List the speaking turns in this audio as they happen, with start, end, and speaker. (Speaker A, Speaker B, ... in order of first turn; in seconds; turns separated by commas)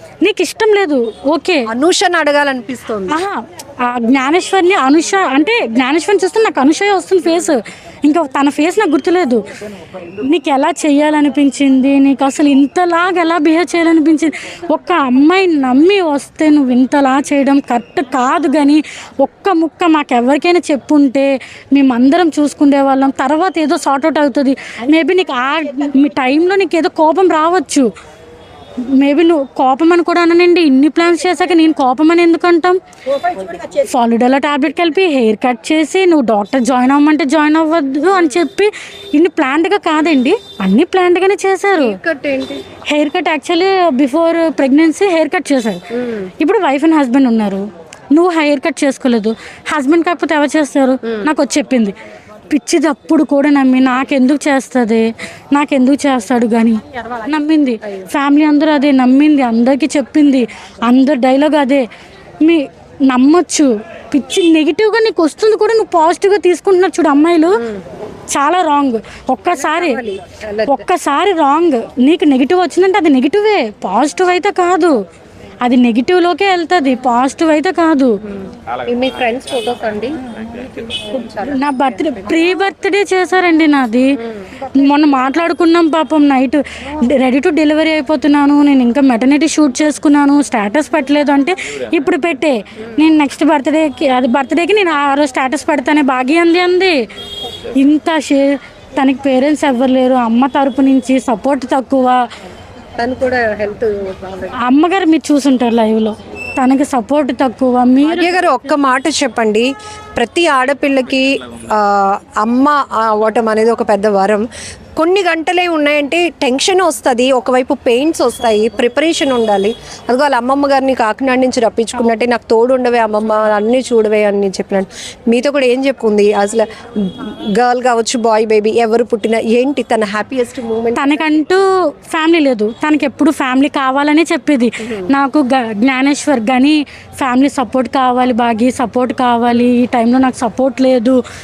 Speaker A: 0.2-1.6, Speaker B: 1.7-3.2, Speaker A: 3.1-9.4, Speaker A: 10.2-27.9, Speaker A: 29.0-32.8, Speaker A: 33.8-42.0, Speaker B: 38.1-38.4, Speaker B: 41.8-42.6, Speaker A: 42.9-45.8, Speaker B: 46.0-46.3, Speaker A: 46.4-51.9, Speaker A: 52.5-61.8, Speaker A: 62.4-67.6, Speaker B: 67.5-67.8, Speaker A: 68.3-70.0, Speaker B: 69.5-70.8, Speaker A: 70.7-74.9, Speaker A: 75.6-78.1, Speaker B: 78.3-80.2, Speaker B: 81.1-82.3, Speaker A: 81.5-84.1, Speaker A: 84.7-96.9, Speaker A: 97.8-98.4, Speaker A: 99.0-102.2, Speaker B: 103.0-104.5, Speaker A: 104.6-108.3, Speaker B: 108.0-114.4, Speaker B: 115.0-131.2, Speaker A: 130.9-131.6, Speaker A: 132.1-141.2